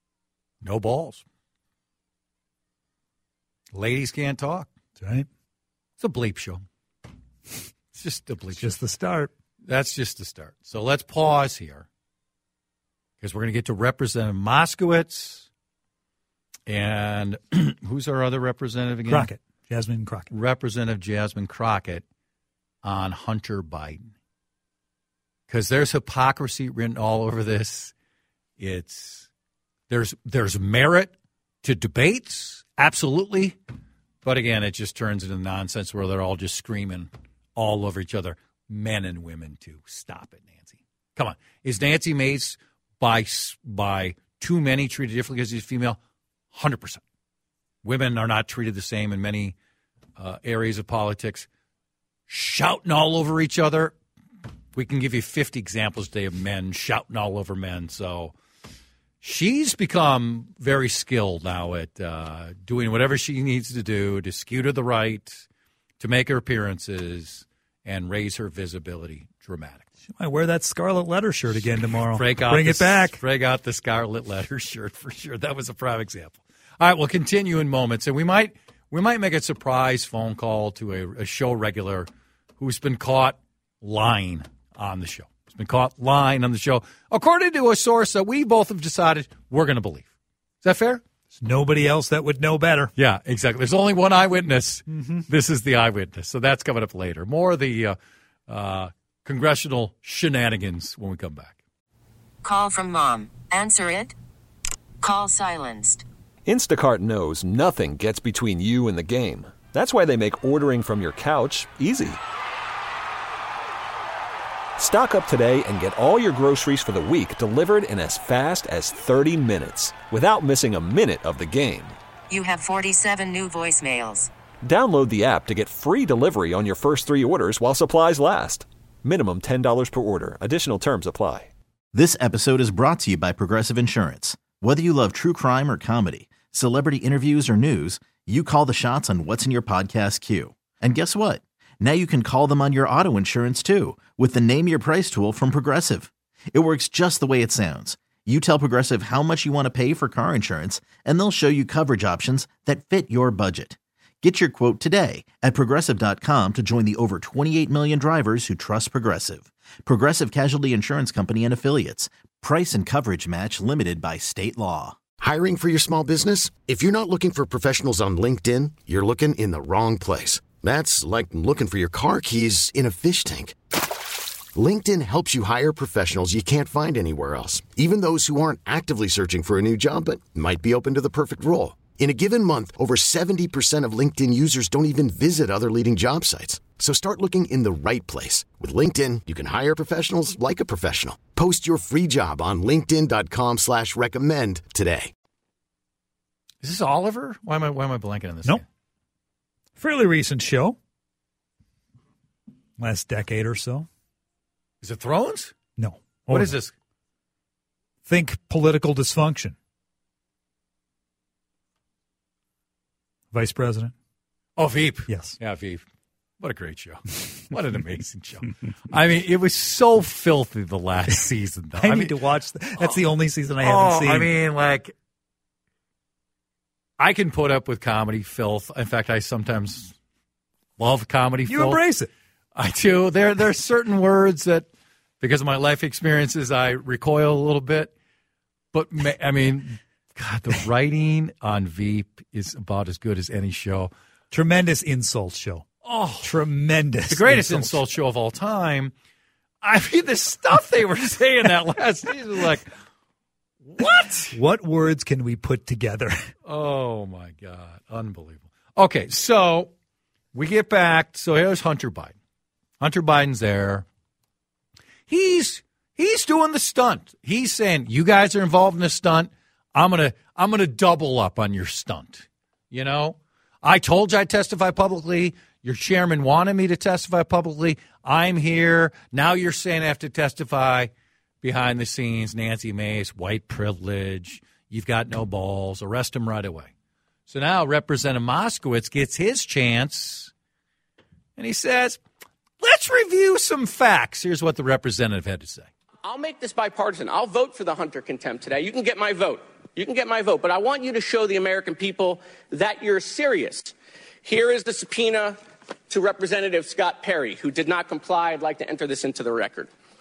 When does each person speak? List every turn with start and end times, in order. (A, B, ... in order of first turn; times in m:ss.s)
0:00.6-0:01.2 A
0:03.7-0:04.7 A
0:05.0-0:05.3 B
0:06.0-0:06.6 A
0:07.9-0:08.8 A
0:08.6-0:09.3 B
0:09.6-0:11.9 A
0:13.2-0:15.5 A
0:16.7-0:19.3 A
0:19.1-0:20.3 B
0:20.3-0:22.0 A
0:22.8-0:24.1 A
0:25.5-0:27.9 A
0:28.6-0:29.3 A
0:29.9-0:33.6 A
0:34.2-0:46.0 A
0:46.5-0:47.0 A
0:47.8-0:49.6 A
0:50.2-0:51.5 A
0:52.3-0:53.9 A
0:54.8-0:58.4 A
0:59.2-1:05.4 A
1:06.0-1:09.9 A
1:10.1-1:13.2 B
1:12.1-1:22.1 A
1:22.6-1:30.1 A
1:30.6-1:31.0 A
1:31.4-1:32.9 B
1:33.0-1:41.6 A
1:34.9-1:35.2 B
1:42.4-1:44.1 C
1:45.0-1:46.0 C
1:46.4-1:52.2 D
1:54.8-2:02.0 D
2:02.3-2:04.3 C
2:04.6-2:11.5 D
2:11.9-2:45.0 E
2:45.2-2:53.6 F
2:54.5-3:15.1 F
3:16.6-3:18.6 A
3:19.8-3:20.8 B
3:22.8-3:23.9 B
3:24.8-3:25.6 A
3:25.8-3:26.6 B
3:26.3-3:26.7 A
3:28.0-3:29.5 B
3:33.3-3:33.9 B
3:34.6-3:35.8 A
3:35.1-3:35.4 B
3:36.4-3:42.2 A
3:41.8-3:44.3 B
3:43.6-3:44.9 A
3:47.0-3:50.0 A
3:50.8-3:51.8 A
3:51.5-3:52.1 B
3:52.6-3:54.7 A
3:55.2-3:57.9 A
3:58.7-4:03.9 A
4:04.3-4:05.6 B
4:05.8-4:06.4 A
4:06.2-4:07.8 B
4:07.1-4:08.9 A
4:09.6-4:12.7 A
4:13.7-4:14.4 A
4:14.3-4:16.3 B
4:16.5-4:19.7 A
4:20.3-4:22.1 A
4:22.8-4:23.9 A
4:25.1-4:40.9 A
4:41.4-4:46.7 A
4:47.3-4:50.3 A
4:51.4-4:52.0 A
4:52.6-4:55.7 A
4:56.0-5:05.4 G
5:05.9-5:09.7 G